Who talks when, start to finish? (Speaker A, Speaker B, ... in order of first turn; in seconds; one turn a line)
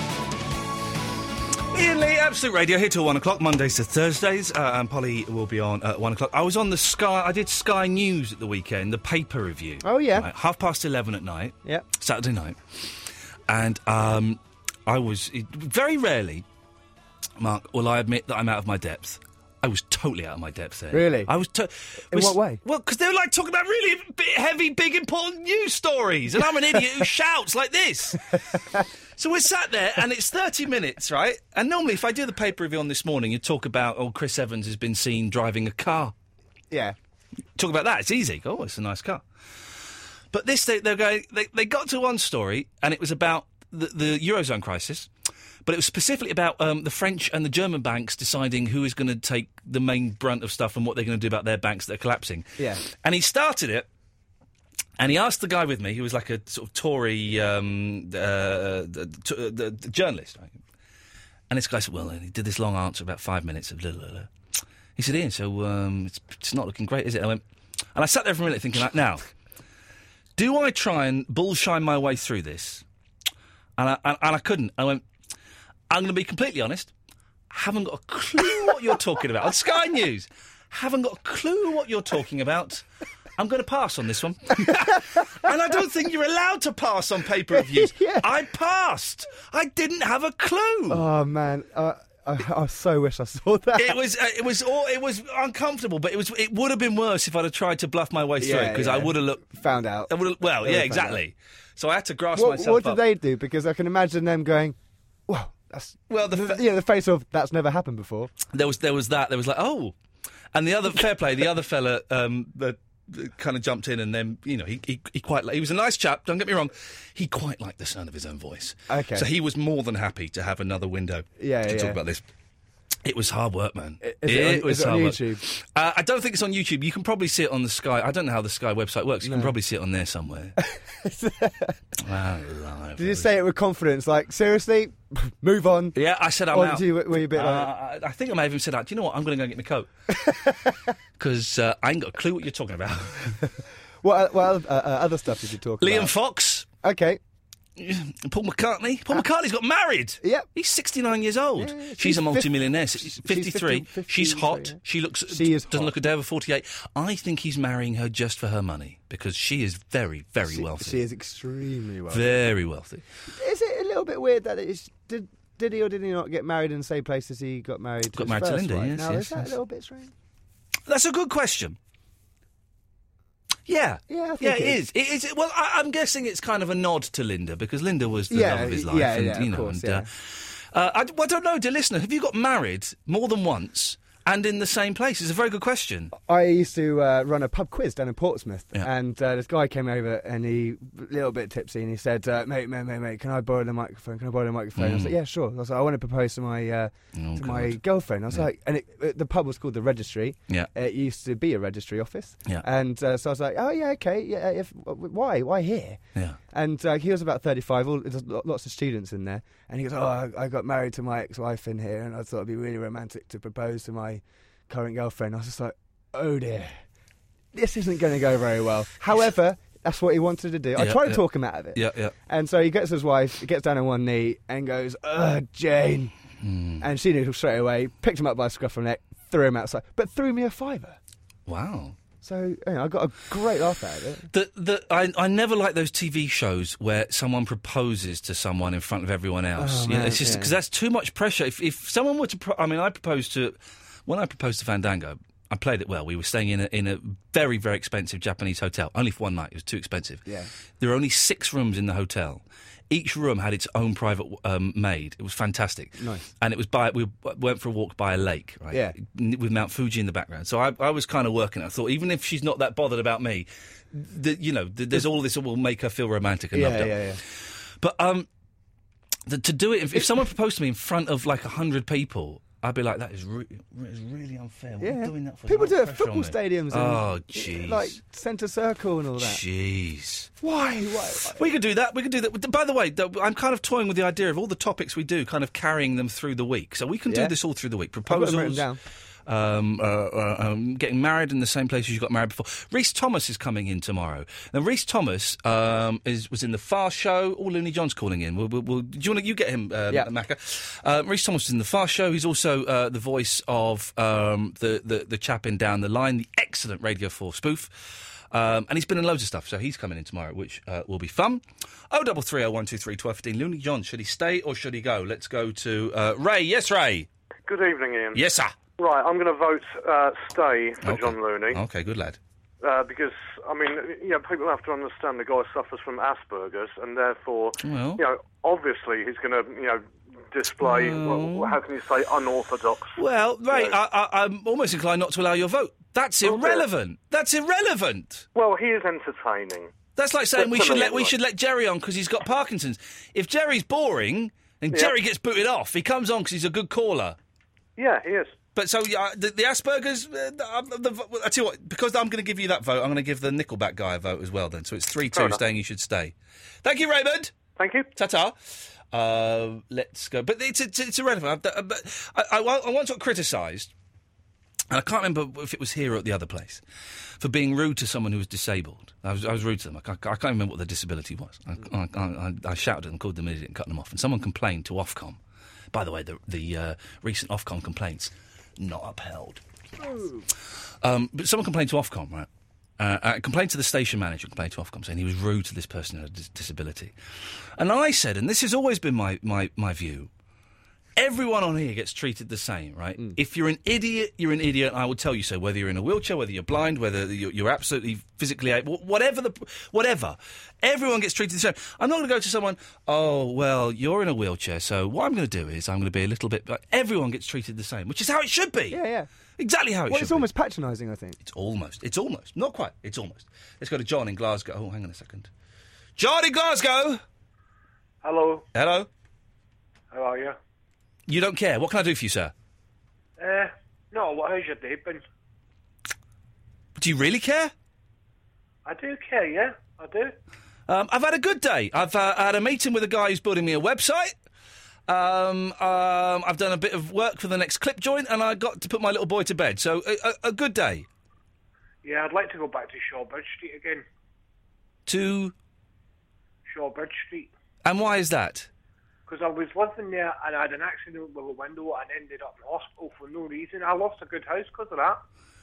Speaker A: 1.7-16.4
Speaker B: 9.8-10.3
Speaker A: 17.4-36.1
Speaker B: 20.9-21.3
Speaker B: 22.1-22.6
Speaker A: 37.6-39.2
Speaker A: 40.3-45.1
Speaker A: 45.6-53.9
Speaker A: 55.0-60.6
Speaker A: 61.5-64.3
Speaker A: 65.0-67.4
Speaker A: 67.9-69.2
Speaker A: 70.3-72.8
Speaker A: 73.8-75.0
Speaker A: 75.9-76.9
Speaker A: 77.5-82.8
Speaker A: 83.4-91.0
Speaker B: 87.5-88.3
Speaker B: 90.9-94.0
Speaker A: 93.8-103.0
Speaker B: 98.4-101.2
Speaker B: 102.3-104.8
Speaker B: 105.3-108.3
Speaker A: 106.1-106.6
Speaker A: 108.5-109.9
Speaker A: 110.5-122.2
Speaker B: 118.9-119.3
Speaker B: 121.4-122.0
Speaker A: 123.0-130.6
Speaker B: 124.0-125.4
Speaker B: 129.2-129.5
Speaker B: 130.7-131.7
Speaker A: 132.0-133.3
Speaker B: 133.0-135.9
Speaker A: 135.9-139.9
Speaker B: 136.5-137.7
Speaker B: 140.1-140.7
Speaker A: 141.2-143.4
Speaker B: 144.0-146.1
Speaker A: 145.8-146.7
Speaker B: 146.8-147.2
Speaker A: 147.8-161.0
Speaker B: 151.6-155.9
Speaker B: 160.5-162.4
Speaker A: 162.1-163.0
Speaker B: 163.3-170.1
Speaker A: 168.1-169.5
Speaker A: 170.9-171.8
Speaker A: 173.7-186.1
Speaker B: 174.1-174.8
Speaker B: 178.3-180.1
Speaker B: 186.2-206.0
Speaker A: 194.8-195.1
Speaker A: 197.1-198.4
Speaker B: 206.5-216.8
Speaker B: 217.5-226.1
Speaker A: 220.8-221.2
Speaker A: 221.7-222.1
Speaker A: 226.4-226.9
Speaker B: 226.8-231.0
Speaker A: 231.5-232.0
Speaker B: 232.2-234.3
Speaker A: 234.3-250.2
Speaker B: 239.6-240.5
Speaker B: 250.2-250.5
Speaker A: 250.8-268.3
Speaker B: 256.0-256.2
Speaker B: 266.5-267.2
Speaker A: 269.3-278.0
Speaker B: 269.9-270.2
Speaker B: 274.8-279.4
Speaker A: 279.2-280.3
Speaker B: 280.4-281.4
Speaker A: 281.3-288.7
Speaker B: 287.1-287.3
Speaker B: 288.1-288.8
Speaker A: 289.2-317.1
Speaker C: 317.5-318.2
Speaker A: 318.1-318.5
Speaker C: 318.8-321.6
Speaker A: 320.8-322.2
Speaker C: 322.6-333.7
Speaker A: 327.6-328.0
Speaker A: 330.6-331.6
Speaker A: 332.9-338.2
Speaker C: 336.2-336.6
Speaker C: 338.3-339.7
Speaker A: 339.9-347.2
Speaker C: 340.3-341.1
Speaker C: 347.8-348.4
Speaker A: 348.6-357.3
Speaker C: 355.1-355.4
Speaker C: 357.6-357.9
Speaker A: 357.9-363.7
Speaker A: 364.7-366.6
Speaker A: 367.2-375.2
Speaker A: 375.7-379.4
Speaker B: 379.8-380.2
Speaker A: 380.8-382.3
Speaker A: 382.8-386.9
Speaker A: 387.6-390.1
Speaker A: 391.0-408.8
Speaker B: 408.7-409.1
Speaker A: 409.4-410.3
Speaker B: 409.9-411.2
Speaker A: 411.2-415.3
Speaker A: 416.0-417.0
Speaker D: 418.0-418.4
Speaker A: 418.5-418.9
Speaker D: 419.9-420.4
Speaker A: 421.1-422.3
Speaker D: 423.2-425.0
Speaker A: 426.8-427.5
Speaker D: 428.6-430.1
Speaker A: 430.7-434.1
Speaker A: 434.9-440.9
Speaker D: 441.8-443.8
Speaker A: 444.9-445.3
Speaker D: 446.4-447.3
Speaker A: 447.6-448.5
Speaker D: 449.1-455.0